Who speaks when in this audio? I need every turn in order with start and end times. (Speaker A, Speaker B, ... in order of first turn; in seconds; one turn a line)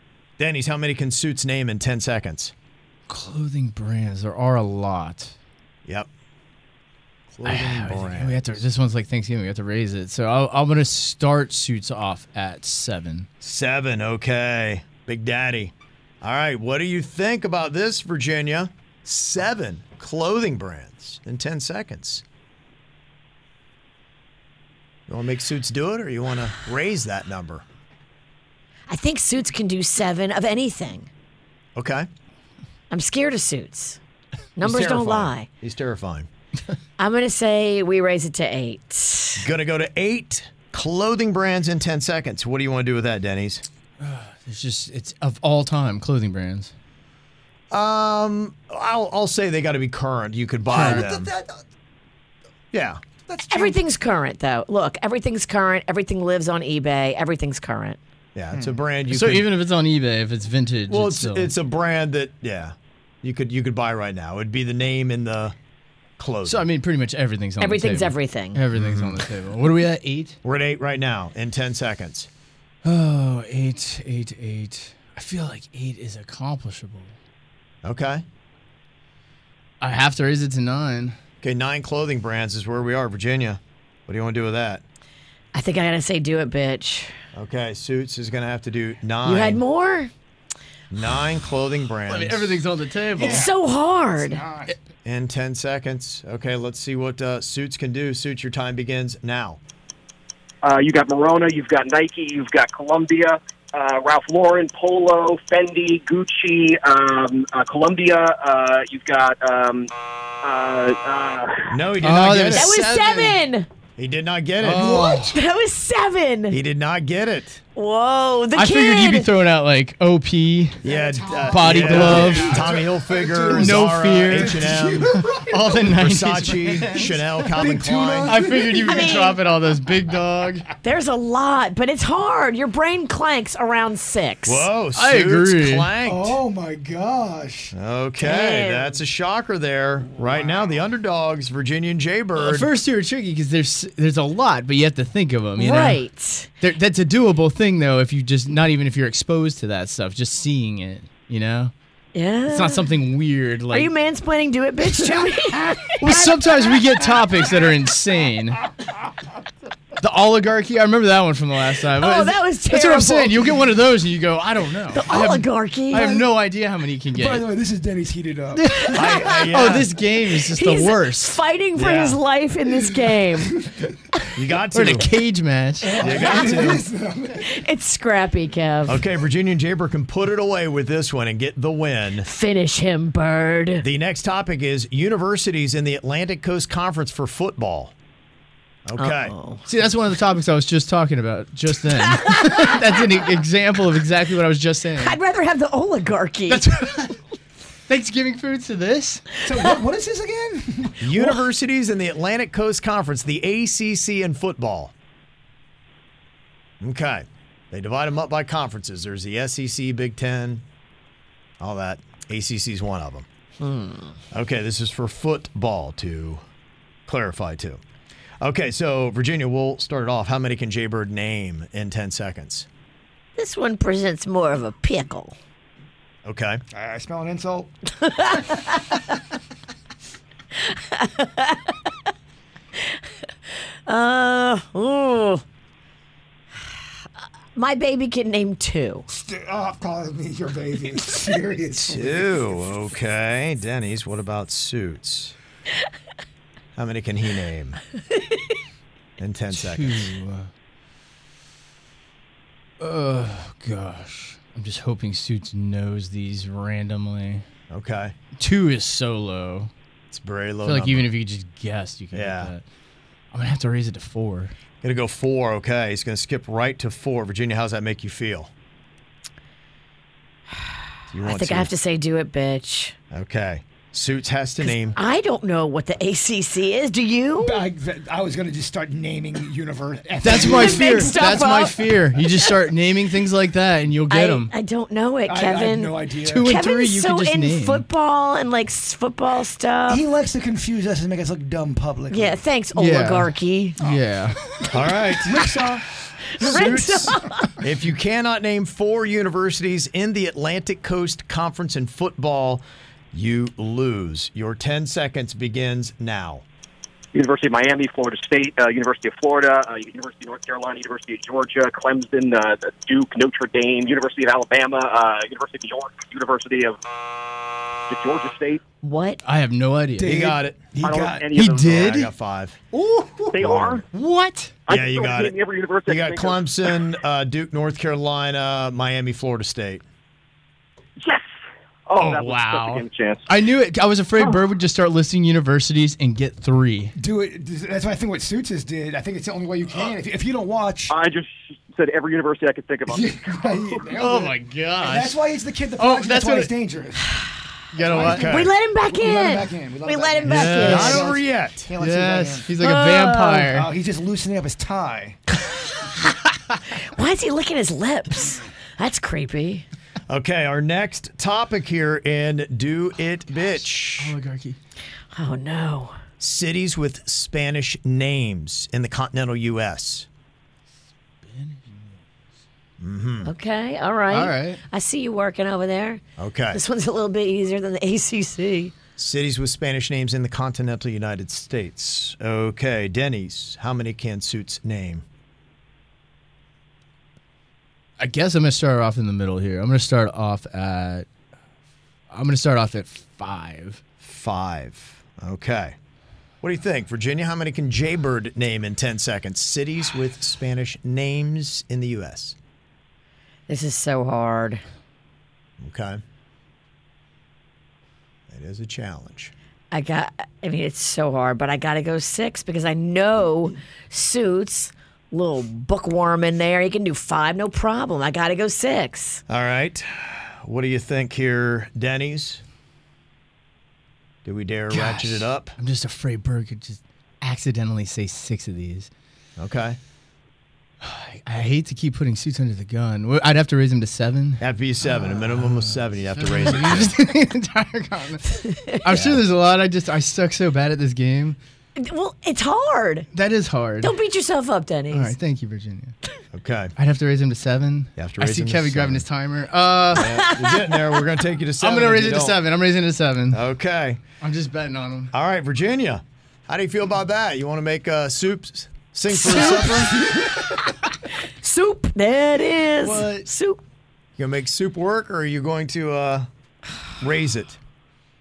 Speaker A: 0.4-2.5
Speaker B: 3.1-5.3
Speaker A: 7.3-8.6
Speaker B: 7.4-13.3
Speaker A: 13.4-22.2
Speaker A: 25.1-27.6
Speaker C: 28.9-31.1
Speaker A: 31.8-32.1
Speaker C: 32.9-34.0
Speaker C: 34.6-35.5
Speaker A: 34.6-36.3
Speaker C: 37.0-39.4
Speaker A: 39.4-43.6
Speaker B: 44.0-46.7
Speaker A: 47.7-51.3
Speaker D: 50.7-51.6
Speaker B: 50.7-51.1
Speaker A: 52.7-53.0
Speaker D: 53.3-53.8
Speaker C: 53.5-58.0
Speaker A: 58.3-59.5
Speaker D: 58.5-58.8
Speaker B: 59.1-61.5
Speaker A: 60.9-65.5
Speaker A: 66.2-66.7
Speaker B: 66.4-70.4
Speaker C: 67.6-68.6
Speaker A: 68.7-69.3
Speaker A: 70.4-72.3
Speaker B: 72.8-77.2
Speaker A: 77.8-78.2
Speaker B: 79.8-81.2
Speaker A: 81.4-84.8
Speaker C: 85.5-87.1
Speaker A: 87.3-89.6
Speaker C: 89.2-90.1
Speaker A: 90.9-92.6
Speaker B: 92.1-93.5
Speaker D: 93.1-93.5
Speaker C: 93.2-94.4
Speaker D: 94.2-94.8
Speaker A: 95.0-99.6
Speaker E: 100.6-109.9
Speaker E: 110.4-111.8
Speaker A: 111.7-112.8
Speaker B: 112.0-113.4
Speaker C: 112.5-113.7
Speaker A: 114.0-115.2
Speaker B: 114.6-115.3
Speaker D: 114.7-115.3
Speaker C: 115.0-116.6
Speaker A: 116.5-117.6
Speaker C: 117.8-119.3
Speaker B: 118.5-120.8
Speaker A: 120.8-125.1
Speaker D: 120.8-129.3
Speaker B: 121.5-122.7
Speaker B: 123.5-127.5
Speaker A: 125.8-128.4
Speaker B: 128.2-130.7
Speaker C: 128.8-129.4
Speaker C: 130.8-134.7
Speaker A: 134.4-136.4
Speaker B: 134.9-135.9
Speaker D: 136.0-137.7
Speaker A: 137.7-142.7
Speaker C: 138.2-139.0
Speaker D: 140.2-140.7
Speaker B: 142.3-146.0
Speaker C: 145.6-146.5
Speaker B: 146.6-151.7
Speaker C: 152.1-152.9
Speaker B: 152.5-153.9
Speaker C: 153.7-156.4
Speaker B: 156.0-158.6
Speaker B: 160.0-167.5
Speaker C: 162.0-163.5
Speaker C: 164.9-166.2
Speaker D: 165.9-166.2
Speaker D: 167.1-169.0
Speaker B: 168.5-171.4
Speaker A: 168.9-169.9
Speaker C: 170.5-173.5
Speaker A: 171.8-172.2
Speaker D: 172.8-173.9
Speaker A: 174.3-175.1
Speaker B: 174.7-176.0
Speaker D: 175.8-177.5
Speaker A: 176.0-176.8
Speaker C: 176.2-176.5
Speaker C: 177.4-179.0
Speaker A: 178.9-182.3
Speaker C: 182.2-183.8
Speaker A: 183.8-187.9
Speaker A: 188.8-189.3
Speaker C: 189.0-189.6
Speaker B: 189.7-195.2
Speaker C: 192.2-192.6
Speaker C: 195.0-196.7
Speaker B: 196.5-197.2
Speaker B: 197.9-199.3
Speaker D: 199.4-201.1
Speaker A: 201.0-204.9
Speaker A: 206.8-210.6
Speaker A: 211.6-213.2
Speaker C: 213.6-214.1
Speaker A: 214.3-216.4
Speaker A: 217.1-217.8
Speaker A: 218.4-222.7
Speaker C: 223.4-225.4
Speaker A: 226.2-226.6
Speaker D: 226.7-227.7
Speaker C: 228.0-229.0
Speaker C: 230.6-231.8
Speaker C: 233.9-235.4
Speaker C: 237.6-239.1
Speaker D: 239.1-242.6
Speaker A: 241.9-245.3
Speaker A: 246.8-247.8
Speaker A: 249.2-250.1
Speaker B: 249.5-250.5
Speaker B: 252.8-257.4
Speaker A: 257.7-258.1
Speaker B: 258.4-259.7
Speaker A: 260.1-261.1
Speaker B: 260.6-262.6
Speaker A: 262.1-262.5
Speaker B: 263.3-264.5
Speaker A: 264.8-268.5
Speaker A: 271.1-271.7
Speaker C: 271.2-272.9
Speaker A: 273.1-275.0
Speaker C: 274.6-277.6
Speaker D: 277.4-281.5
Speaker B: 280.2-284.5
Speaker C: 280.2-282.5
Speaker C: 284.1-290.0
Speaker D: 285.3-286.5
Speaker B: 286.2-287.8
Speaker D: 289.9-292.4
Speaker C: 292.1-293.8
Speaker B: 292.7-294.4
Speaker D: 293.8-294.0
Speaker D: 294.6-295.8
Speaker A: 294.7-295.6
Speaker C: 296.3-297.5
Speaker A: 296.4-306.4
Speaker E: 307.1-316.8
Speaker E: 317.9-318.6
Speaker C: 318.8-319.2
Speaker B: 319.2-320.3
Speaker D: 320.0-321.4
Speaker A: 320.0-320.6
Speaker E: 320.8-321.9
Speaker B: 321.3-322.1
Speaker A: 321.6-322.6
Speaker B: 322.8-323.3
Speaker E: 323.3-323.8
Speaker A: 323.3-323.8
Speaker B: 323.9-324.6
Speaker E: 324.7-326.7
Speaker A: 324.7-329.8
Speaker E: 331.9-333.2
Speaker B: 331.9-336.9
Speaker D: 336.9-340.9
Speaker E: 340.9-343.8
Speaker D: 342.9-347.1
Speaker B: 343.9-345.2
Speaker B: 345.8-346.5
Speaker B: 347.7-348.3
Speaker D: 347.8-352.5
Speaker A: 347.9-348.5
Speaker C: 348.2-351.0
Speaker B: 350.2-351.1
Speaker A: 350.6-351.7
Speaker B: 351.8-353.7
Speaker C: 352.6-353.5
Speaker D: 353.4-355.2
Speaker C: 356.9-359.6
Speaker A: 360.1-364.2
Speaker B: 364.0-364.6
Speaker C: 365.1-365.9
Speaker A: 366.2-370.1
Speaker B: 371.2-372.0
Speaker A: 372.8-373.3
Speaker C: 373.2-378.7
Speaker B: 374.1-374.6
Speaker A: 376.2-376.6
Speaker A: 379.0-385.0
Speaker B: 388.0-391.1
Speaker B: 392.1-393.8
Speaker A: 394.0-395.7
Speaker A: 396.4-402.4
Speaker C: 403.5-404.6
Speaker A: 405.6-406.0
Speaker A: 408.3-409.3
Speaker C: 409.7-419.2
Speaker A: 419.3-422.4
Speaker A: 424.2-425.6
Speaker B: 424.7-428.9
Speaker A: 429.4-429.8
Speaker B: 430.8-441.4
Speaker A: 434.4-436.9
Speaker C: 438.5-438.8
Speaker A: 438.8-439.2
Speaker C: 441.8-443.1
Speaker B: 443.1-443.9
Speaker C: 443.8-445.1
Speaker B: 444.9-445.9
Speaker A: 446.3-446.7
Speaker B: 446.8-450.2
Speaker A: 447.9-449.1
Speaker A: 449.9-452.4
Speaker C: 450.0-450.8
Speaker B: 451.6-453.4
Speaker A: 453.3-454.0
Speaker B: 454.2-455.1
Speaker A: 455.1-459.9
Speaker C: 459.1-459.8
Speaker D: 459.2-460.5
Speaker C: 461.4-463.6
Speaker B: 462.8-463.3
Speaker A: 464.2-466.3
Speaker A: 467.0-467.6